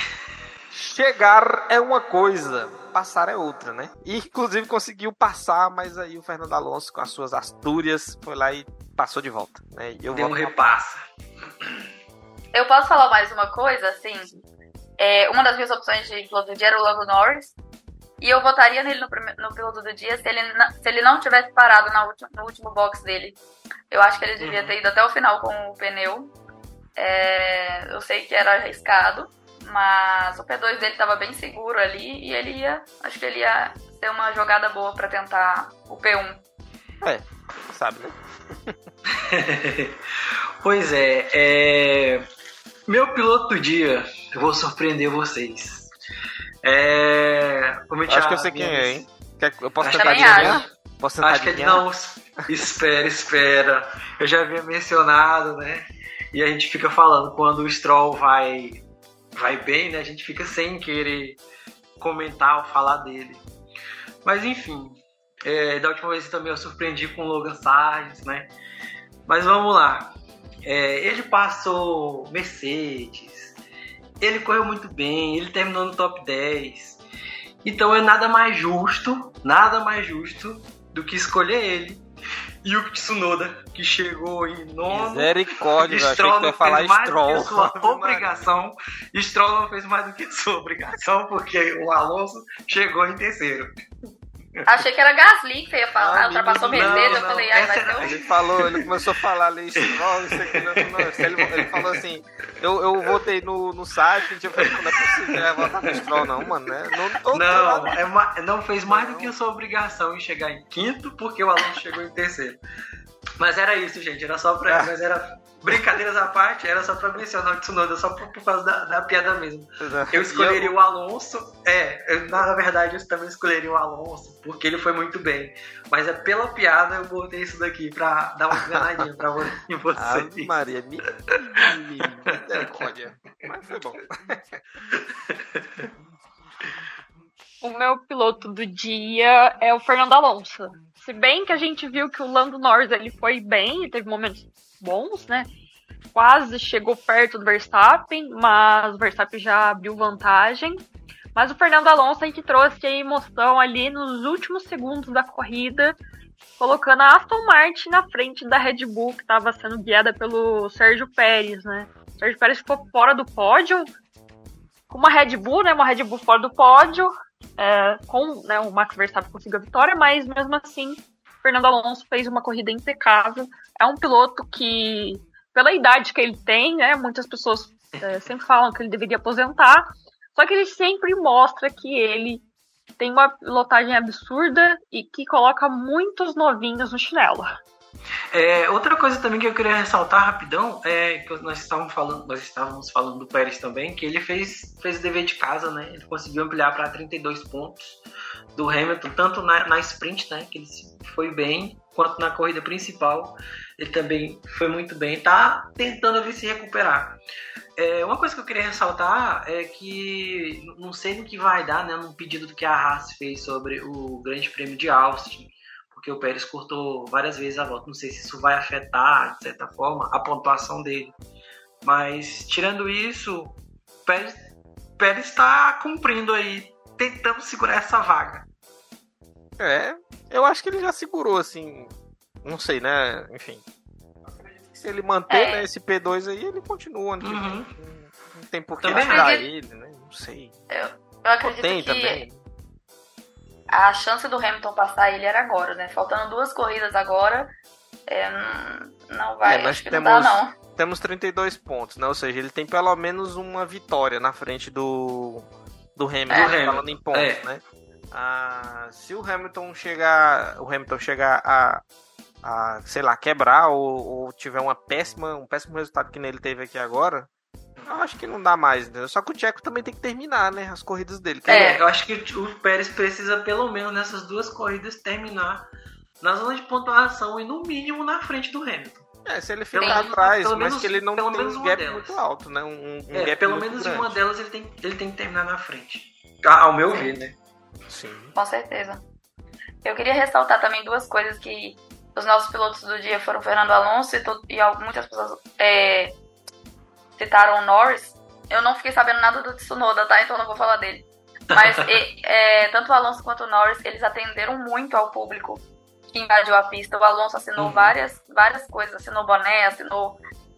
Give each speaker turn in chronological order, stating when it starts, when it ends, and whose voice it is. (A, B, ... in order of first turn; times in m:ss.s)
0:00.7-0:10.6 A
0:10.1-0:11.0 B
0:12.5-0:14.3 C
0:15.0-0:17.6 C
0:18.2-0:23.4 C
0:23.9-0:26.3 C
0:24.4-0:24.7 B
0:27.0-0:36.4 C
0:37.0-0:38.8 A
0:39.2-0:40.0 B
0:40.6-0:42.2 B
0:42.9-0:45.9 B
0:46.6-0:49.1 B
0:48.1-0:51.8 A
0:49.8-0:50.7 B
0:50.0-0:50.7 C
0:51.2-0:58.8 B
0:59.4-1:01.4 B
1:02.0-1:03.5 B
1:04.2-1:08.5 B
1:09.3-1:10.1 B
1:10.6-1:13.6 B
1:14.2-1:17.0 B
1:17.6-1:22.0 B
1:22.6-1:33.7 B
1:24.9-1:28.4 A
1:34.6-1:38.2 C
1:36.0-1:37.5 A
1:36.7-1:39.0 B
1:38.0-1:48.0 A
1:39.8-1:41.9 B
1:44.6-1:46.5 B
1:47.3-1:52.6 B
1:48.9-1:49.4 A
1:53.4-2:10.6 B
1:55.7-1:56.0 A
1:59.8-2:00.8 A
2:08.7-2:09.1 A
2:10.0-2:14.4 A
2:12.3-2:12.9 B
2:15.6-2:15.9 B
2:17.6-2:25.5 D
2:26.1-2:30.8 D
2:31.4-2:36.0 D
2:36.6-2:43.9 D
2:44.9-3:02.4 D
3:03.0-3:07.5 D
3:08.3-3:18.0 B
3:18.6-3:27.2 B
3:27.8-3:41.2 B
3:41.8-3:44.4 B
3:45.0-3:48.5 B
3:49.6-3:51.9 A
3:52.4-3:53.6 A
3:54.7-4:00.5 A
3:55.3-3:55.7 C
3:57.2-3:57.7 B
3:58.8-3:59.3 B
3:59.0-3:59.5 C
4:00.7-4:02.2 C
4:01.4-4:02.4 A
4:03.7-4:07.5 C
4:08.1-4:10.6 C
4:09.4-4:21.8 A
4:16.3-4:17.4 B
4:22.4-4:27.3 A
4:27.9-4:31.7 A
4:31.5-4:35.7 B
4:31.5-4:31.8 C
4:36.2-4:39.1 B
4:39.3-4:44.2 A
4:39.7-4:42.2 B
4:39.8-4:40.0 C
4:43.1-4:47.4 B
4:47.9-4:48.4 A
4:48.4-4:49.0 C
4:49.8-4:56.2 C
4:57.2-5:10.2 C
5:01.5-5:01.8 B
5:07.6-5:08.0 B